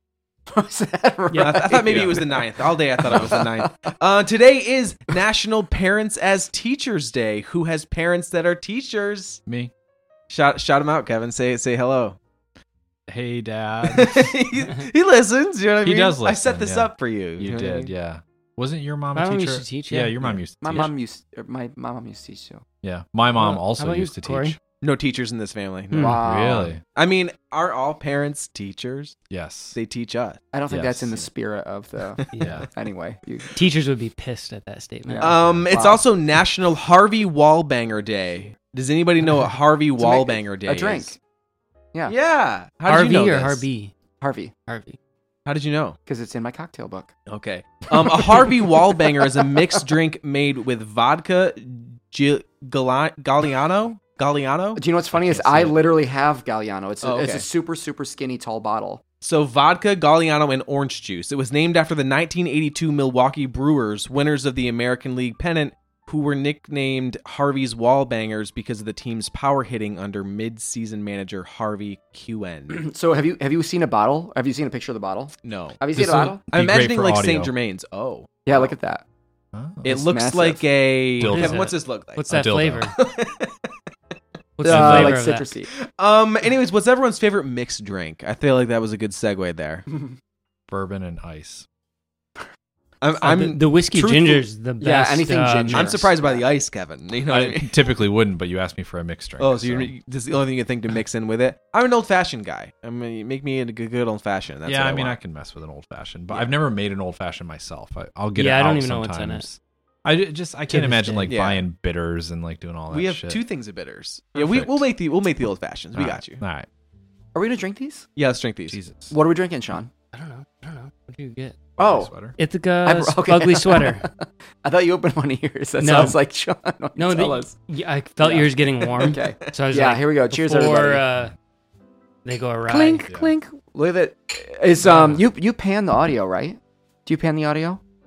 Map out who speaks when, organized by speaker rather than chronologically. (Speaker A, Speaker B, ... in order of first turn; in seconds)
Speaker A: 0.5-3.9, 20.6-22.6, 25.9-26.7, 30.5-33.5, 35.1-36.0, 40.0-41.2, 44.2-44.5, 46.0-47.1, 48.1-49.6, 54.8-59.0, 72.7-76.4, 78.5-79.0, 79.8-80.6, 84.6-85.7, 94.8-96.4, 117.3-118.0, 119.1-119.9, 121.8-122.1, 122.8-127.5, 128.2-131.0, 132.7-137.8
Speaker B: 1.3-1.7, 19.1-20.9, 23.3-24.6, 25.9-26.2, 32.3-32.6, 33.5-35.3, 42.9-43.9, 44.7-45.0, 81.2-83.0, 84.6-85.5, 93.2-96.0, 108.3-109.5, 110.7-111.3, 120.1-121.6, 122.3-124.1, 125.8-126.2, 127.0-131.3, 132.2-133.1
Speaker C: 1.3-9.4, 10.3-12.2, 13.9-17.9, 24.8-26.2, 26.9-29.2, 29.7-30.4, 32.2-32.5, 35.2-41.1, 42.0-43.6, 45.4-46.0, 47.3-55.7, 57.0-57.5, 59.2-72.8, 75.4-78.7, 79.8-82.3, 82.9-83.5, 85.9-89.8, 93.0-94.4, 95.7-97.8, 99.4-105.2, 111.3-111.7, 112.9-116.4, 118.2-118.8, 129.0-129.3
Speaker D: 1.9-2.2, 9.5-9.7, 13.1-14.3, 15.8-20.9, 22.8-24.6, 26.2-26.8, 29.3-29.8, 30.7-31.2, 32.4-32.7, 35.4-35.7, 55.2-55.7, 75.9-77.5, 79.5-79.9, 81.2-81.7, 82.3-82.9, 84.6-85.2, 90.7-91.7, 97.3-99.9, 104.7-113.4, 114.3-114.9, 115.9-116.7, 118.7-119.2, 121.8-122.4, 134.8-135.2